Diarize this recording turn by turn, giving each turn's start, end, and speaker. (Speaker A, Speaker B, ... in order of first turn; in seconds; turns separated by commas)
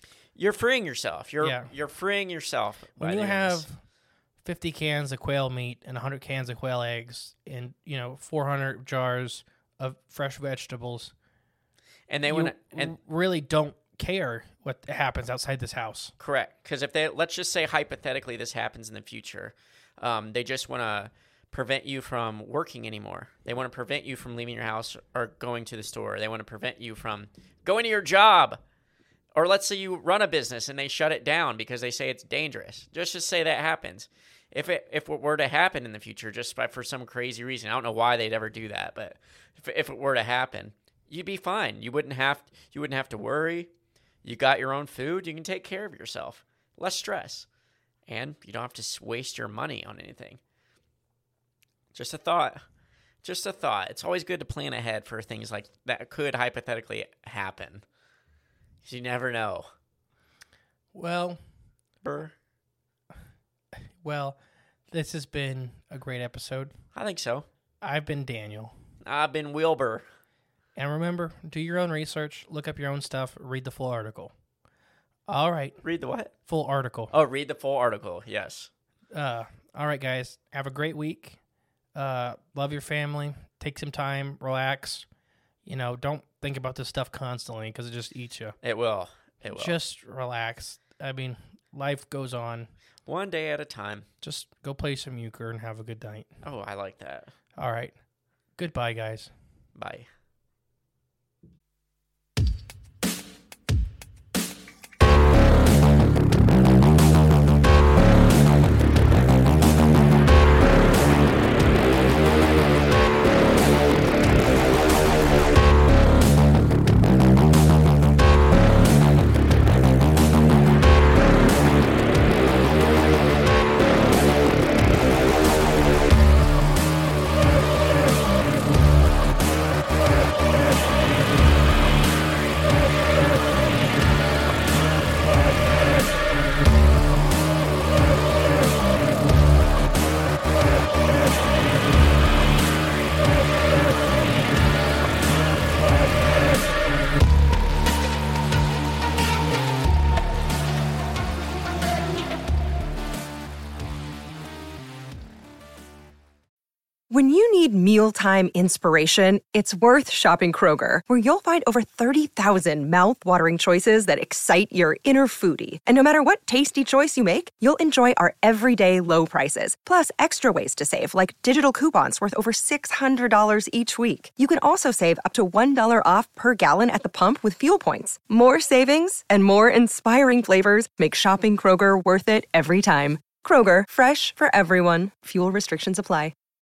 Speaker A: 0.3-3.6, Speaker B: 1.4-1.7, Speaker B: 3.0-3.8, Speaker B: 4.4-11.1, Speaker A: 12.1-12.9, Speaker B: 12.3-16.1, Speaker A: 16.2-28.6, Speaker A: 29.3-43.7, Speaker A: 44.2-47.5, Speaker A: 48.1-50.4, Speaker A: 51.9-52.6, Speaker A: 53.2-57.8, Speaker A: 58.8-59.7, Speaker B: 60.9-61.4, Speaker A: 62.0-62.3, Speaker B: 64.0-64.4, Speaker B: 64.9-66.7, Speaker A: 66.9-67.5, Speaker B: 67.8-68.7, Speaker A: 69.0-70.0, Speaker B: 70.7-74.3, Speaker B: 75.3-75.8, Speaker A: 75.8-76.3, Speaker B: 76.5-77.1, Speaker A: 77.1-78.7, Speaker B: 79.1-81.4, Speaker B: 81.9-85.0, Speaker B: 85.7-88.5, Speaker A: 88.6-89.8, Speaker B: 89.5-92.7, Speaker A: 93.0-94.0, Speaker B: 94.2-96.3, Speaker A: 96.4-97.3, Speaker B: 97.5-97.9, Speaker B: 98.6-99.3, Speaker A: 99.7-100.1, Speaker C: 157.1-186.3